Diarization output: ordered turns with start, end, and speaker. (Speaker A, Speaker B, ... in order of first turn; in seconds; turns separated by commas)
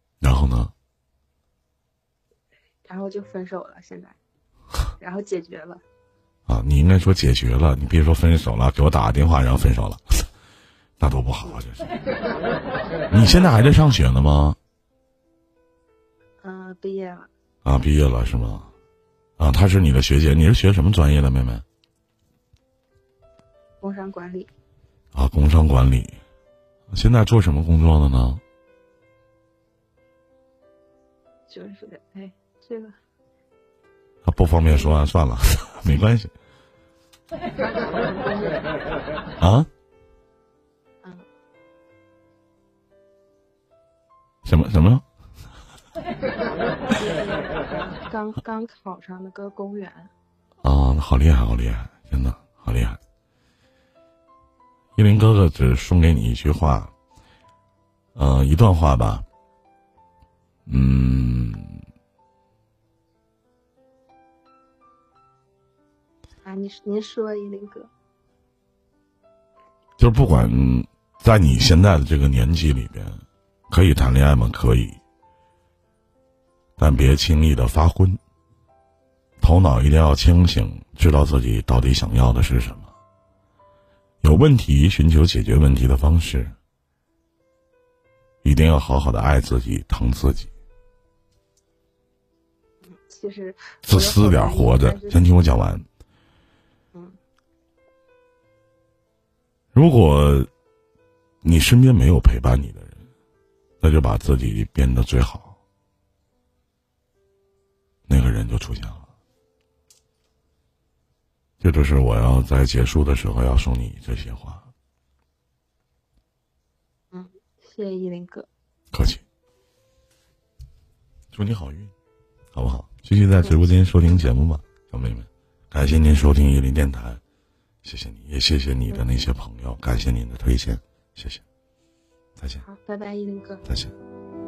Speaker A: 0.2-0.7, Speaker B: 2.8-4.2, Speaker B: 5.0-5.8, Speaker A: 6.5-10.2, Speaker A: 11.0-11.9, Speaker A: 13.1-14.6, Speaker B: 16.4-17.3, Speaker A: 17.6-18.7, Speaker A: 19.4-21.6, Speaker B: 23.8-24.5, Speaker A: 25.1-26.2, Speaker A: 26.9-28.4, Speaker B: 31.5-32.9, Speaker A: 34.2-36.3, Speaker B: 37.6-38.7, Speaker A: 39.4-39.7, Speaker A: 44.4-45.0, Speaker B: 46.9-50.1, Speaker A: 50.6-53.0, Speaker A: 55.0-56.9, Speaker A: 58.1-59.2, Speaker A: 60.7-61.8, Speaker B: 66.4-67.9, Speaker A: 70.0-75.0, Speaker A: 76.8-78.2, Speaker A: 79.4-82.9, Speaker A: 84.2-86.5, Speaker A: 88.4-90.5, Speaker B: 92.8-95.2, Speaker A: 93.8-95.8, Speaker A: 99.7-100.5, Speaker A: 101.4-103.0, Speaker A: 103.8-105.5, Speaker A: 108.1-109.0, Speaker A: 111.6-114.7, Speaker B: 117.1-118.5, Speaker A: 118.9-119.2, Speaker A: 121.3-121.9, Speaker A: 122.5-127.2, Speaker A: 127.8-131.4, Speaker A: 132.4-132.6, Speaker B: 132.6-133.7, Speaker A: 133.7-133.9